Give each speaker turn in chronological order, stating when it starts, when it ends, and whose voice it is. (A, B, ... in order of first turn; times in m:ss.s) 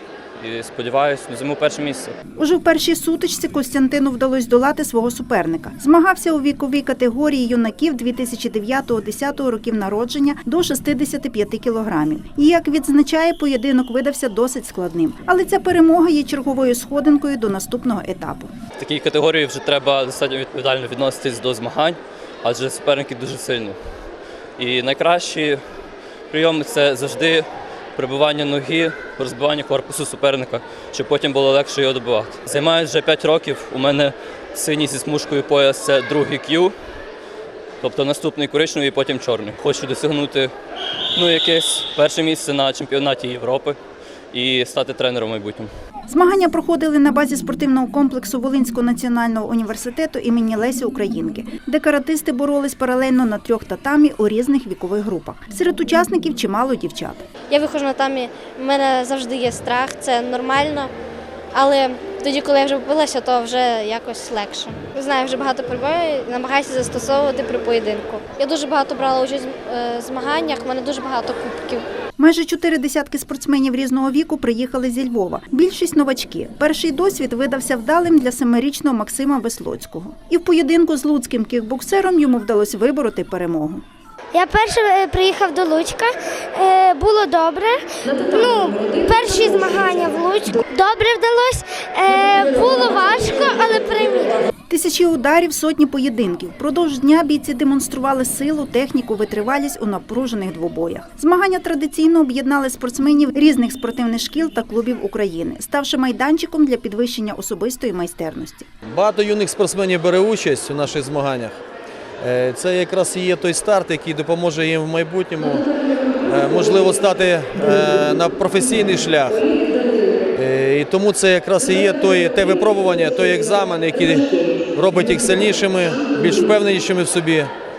0:00.4-0:02.1 A
0:02.4-0:18.5 B
0:18.8-0:23.8 A
0:24.6-0:25.6 A
0:26.3-0:36.7 A
0:37.8-0:40.5 A
0:41.2-0:43.8 A
0:44.3-0:45.7 A
0:46.1-0:57.2 B
0:57.5-1:00.9 C
1:01.5-1:11.8 C
1:12.2-1:23.8 B
1:24.3-1:34.4 D
1:34.7-1:48.7 B
1:48.9-1:51.5 E
1:52.2-1:55.6 E
1:56.2-1:59.5 E
2:00.3-2:07.5 E